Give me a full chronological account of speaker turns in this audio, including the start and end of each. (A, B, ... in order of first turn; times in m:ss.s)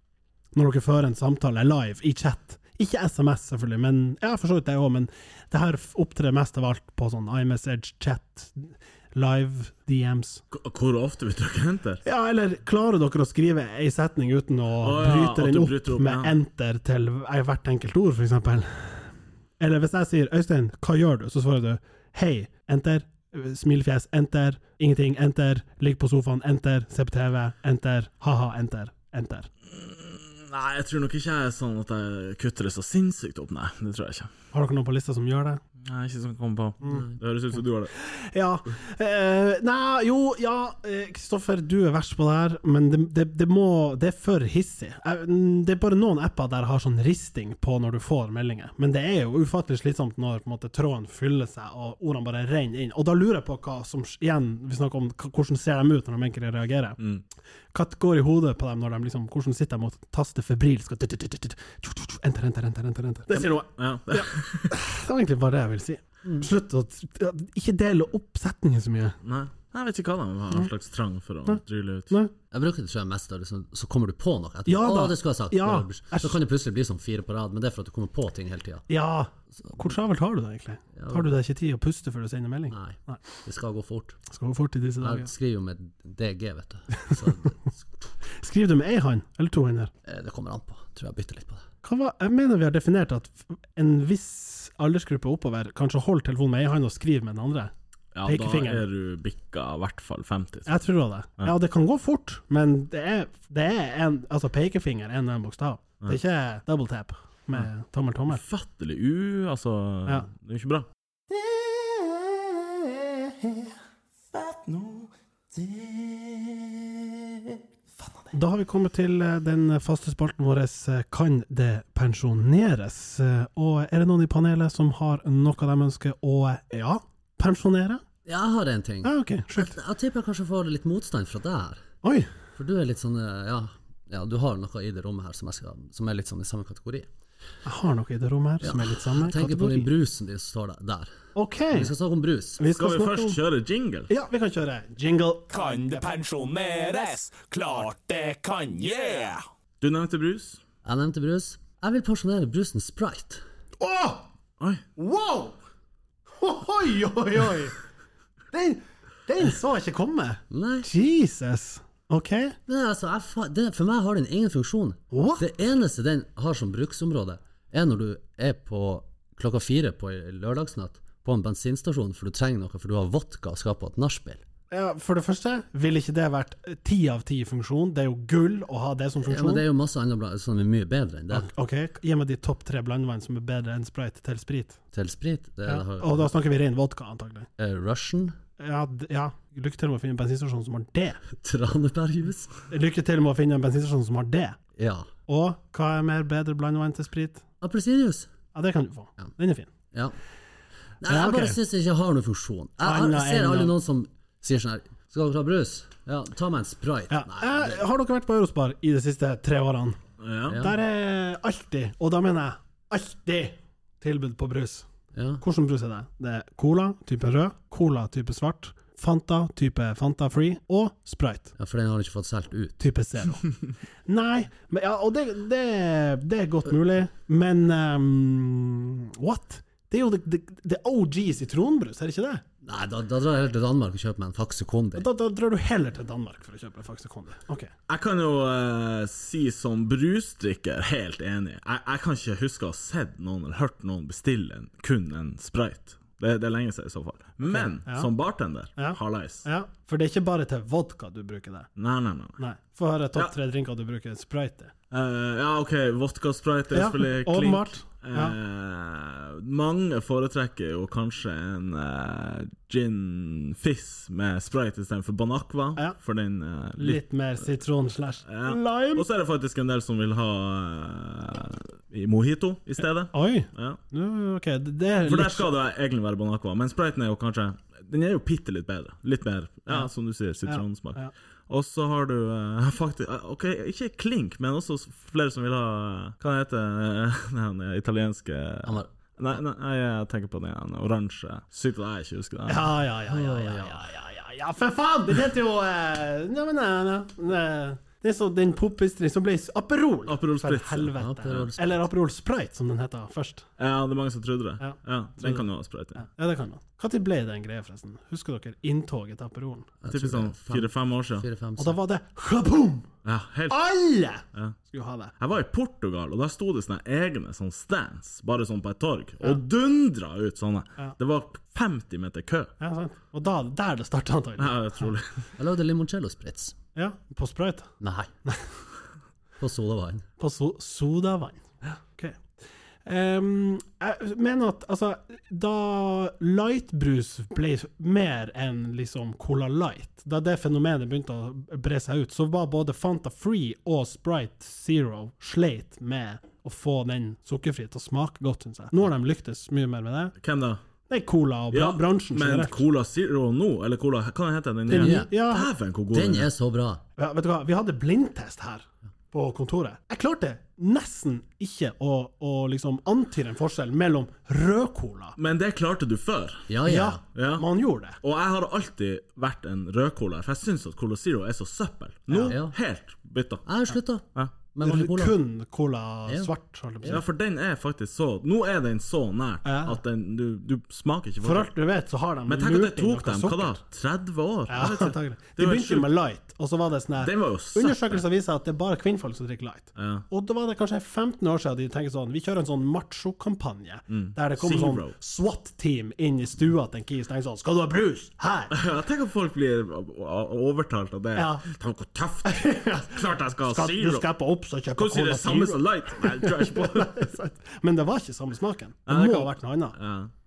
0:00.5-0:10.4 A
0:10.5-0:12.0 B
0:12.0-0:29.5 A
0:14.8-0:16.3 B
0:29.7-0:34.3 B
0:34.5-0:35.6 A
0:35.8-0:37.9 B
0:38.0-0:57.0 A
0:57.7-1:09.2 A
1:03.8-1:04.7 B
1:09.2-1:12.1 B
1:12.5-1:18.8 C
1:14.6-1:16.4 A
1:18.9-1:23.2 A
1:20.9-1:21.4 C
1:22.7-1:24.2 C
1:24.3-1:25.3 A
1:25.0-1:28.1 C
1:27.0-1:27.5 A
1:28.4-1:29.9 A
1:30.0-1:31.6 C
1:31.8-1:37.7 A
1:38.1-1:40.7 B
1:38.2-1:38.8 A
1:40.7-1:48.4 A
1:48.3-1:50.8 B
1:51.3-1:53.7 A
1:54.4-1:56.7 B
1:58.3-2:08.0 A
2:08.2-2:11.8 C
2:09.0-2:09.7 A
2:12.0-2:12.3 A
2:12.6-2:17.1 C
2:17.6-2:19.9 A
2:18.6-2:21.2 C
2:21.3-2:21.9 A
2:21.7-2:22.6 C
2:22.6-2:23.4 A
2:22.7-2:24.1 B
2:24.1-2:25.5 A
2:25.5-2:29.4 D
2:29.8-2:30.6 B
2:30.8-2:33.4 C
2:33.8-2:34.2 A
2:35.0-2:35.6 A
2:36.4-2:37.8 A
2:38.5-2:42.6 A
2:40.5-2:40.9 C
2:42.7-2:54.4 C
2:45.1-2:45.4 A
2:54.7-2:59.6 A
2:59.2-3:01.5 C
3:01.3-3:04.8 A
3:04.9-3:06.3 C
3:05.6-3:07.5 A
3:07.6-3:08.4 C
3:08.6-3:11.2 A
3:11.3-3:12.6 C
3:12.7-3:14.6 A
3:14.8-3:15.1 C
3:15.3-3:17.4 A
3:17.6-3:18.3 C
3:18.5-3:19.7 A
3:21.0-3:27.8 C
3:21.1-3:21.6 A
3:22.8-3:23.7 A
3:27.1-3:30.0 A
3:30.2-3:30.6 B
3:30.5-3:30.8 C
3:30.5-3:34.9 A
3:35.1-3:35.4 C
3:35.4-3:41.5 A
3:41.6-3:42.8 C
3:42.8-3:43.4 A
3:44.1-3:52.4 A
3:52.6-3:55.1 C
3:55.0-3:57.7 A
3:57.9-4:09.4 B
4:07.5-4:08.1 A
4:08.8-4:11.7 A
4:11.8-4:12.4 B
4:12.4-4:14.7 A
4:14.9-4:27.0 B
4:16.7-4:18.4 A
4:26.8-4:29.0 A
4:28.2-4:33.8 B
4:33.1-4:35.5 A
4:35.0-4:52.7 B
4:40.5-4:41.1 A
4:52.5-5:03.4 A
4:53.1-4:53.8 C
5:00.1-5:01.5 B
5:01.0-5:01.8 C
5:03.6-5:06.0 B
5:04.6-5:05.4 A
5:06.0-5:09.7 A
5:09.8-5:11.8 C
5:09.9-5:11.2 B
5:11.6-5:12.9 A
5:13.0-5:13.6 B
5:13.5-5:15.1 A
5:15.2-5:22.5 B
5:22.6-5:24.7 A
5:24.4-5:25.2 B
5:25.4-5:26.6 C
5:26.7-5:27.7 A
5:27.8-5:28.1 C
5:29.4-5:30.0 C
5:30.2-5:32.2 A
5:32.8-5:50.1 A
5:50.2-5:50.6 B
5:50.9-5:52.6 A
5:51.5-5:56.3 B
5:54.7-5:55.5 A
5:54.7-5:55.1 C
5:55.9-5:56.8 C
5:57.0-6:05.2 A
6:05.2-6:06.5 B
6:06.5-6:07.0 C
6:06.6-6:08.0 A
6:07.1-6:07.4 B
6:08.0-6:13.4 B
6:12.1-6:12.4 A
6:12.3-6:12.6 C
6:13.4-6:15.2 C
6:14.6-6:17.0 A
6:16.9-6:21.5 B
6:19.4-6:19.8 A
6:21.2-6:23.6 A
6:22.3-6:25.9 B
6:24.5-6:38.5 A
6:27.0-6:28.0 B
6:29.8-6:30.0 B
6:33.9-6:34.9 B
6:38.5-6:44.0 B
6:41.1-6:41.4 A
6:42.2-6:49.8 A
6:44.8-6:47.0 B
6:48.9-6:50.1 B